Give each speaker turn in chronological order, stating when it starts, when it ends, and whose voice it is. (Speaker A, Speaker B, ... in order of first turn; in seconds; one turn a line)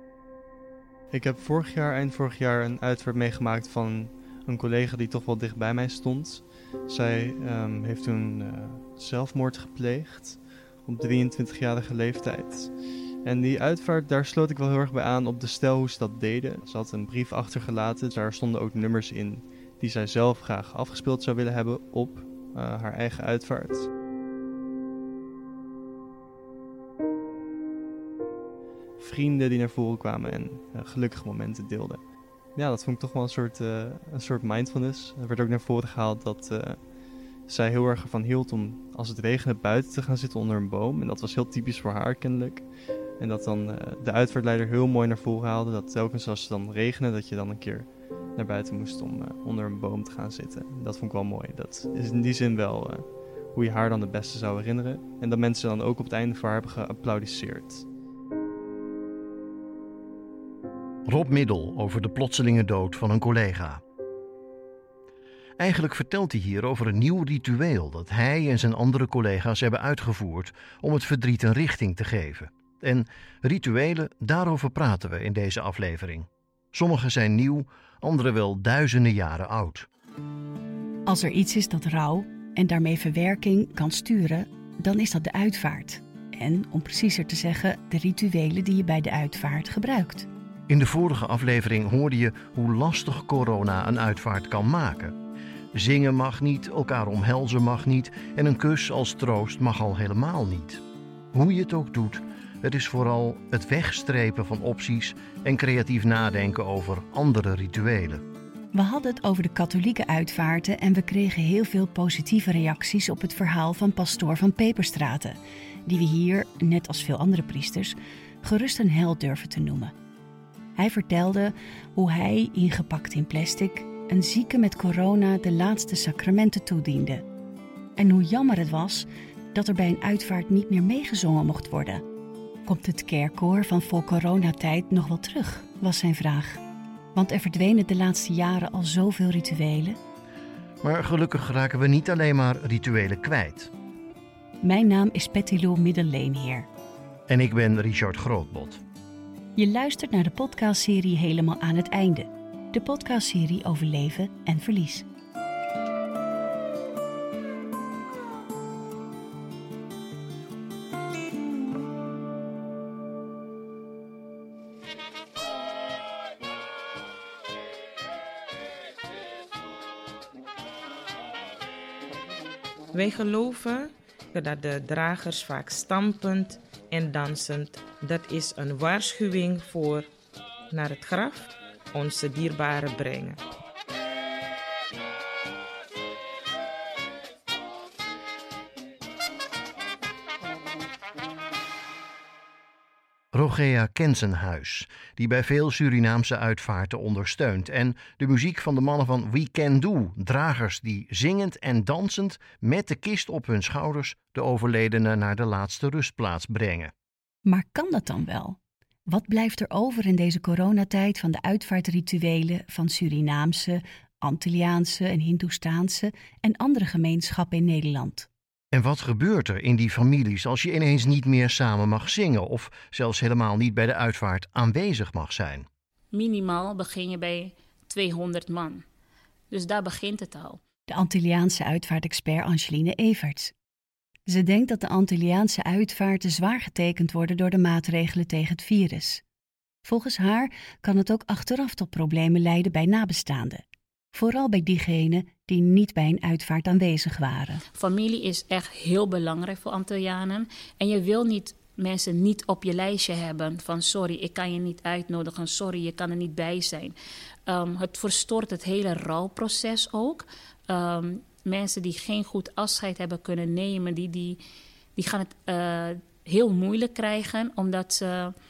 Speaker A: 1.1-23.9
Speaker A: 29.0-57.9
Speaker B: 61.0-63.8
Speaker B: 65.6-79.9
Speaker C: 81.0-90.3
Speaker B: 90.7-95.2
Speaker B: 95.7-100.8
Speaker B: 101.3-108.2
Speaker C: 108.7-119.9
Speaker C: 120.8-127.2
Speaker C: 128.0-132.0
Speaker C: 132.6-136.6
Speaker C: 137.1-140.0
Speaker B: 140.8-143.7
Speaker C: 144.6-146.7
Speaker B: 147.3-148.8
Speaker C: 149.6-155.1
Speaker D: 172.9-180.1
Speaker D: 180.7-183.4
Speaker B: 193.3-206.9
Speaker C: 207.4-218.3
Speaker B: 218.7-225.7
Speaker E: 226.1-228.8
Speaker E: 229.5-230.6
Speaker C: 230.9-233.5
Speaker C: 234.3-239.2
Speaker C: 239.8-247.6
Speaker E: 247.7-256.9
Speaker E: 257.5-264.4
Speaker E: 264.9-268.3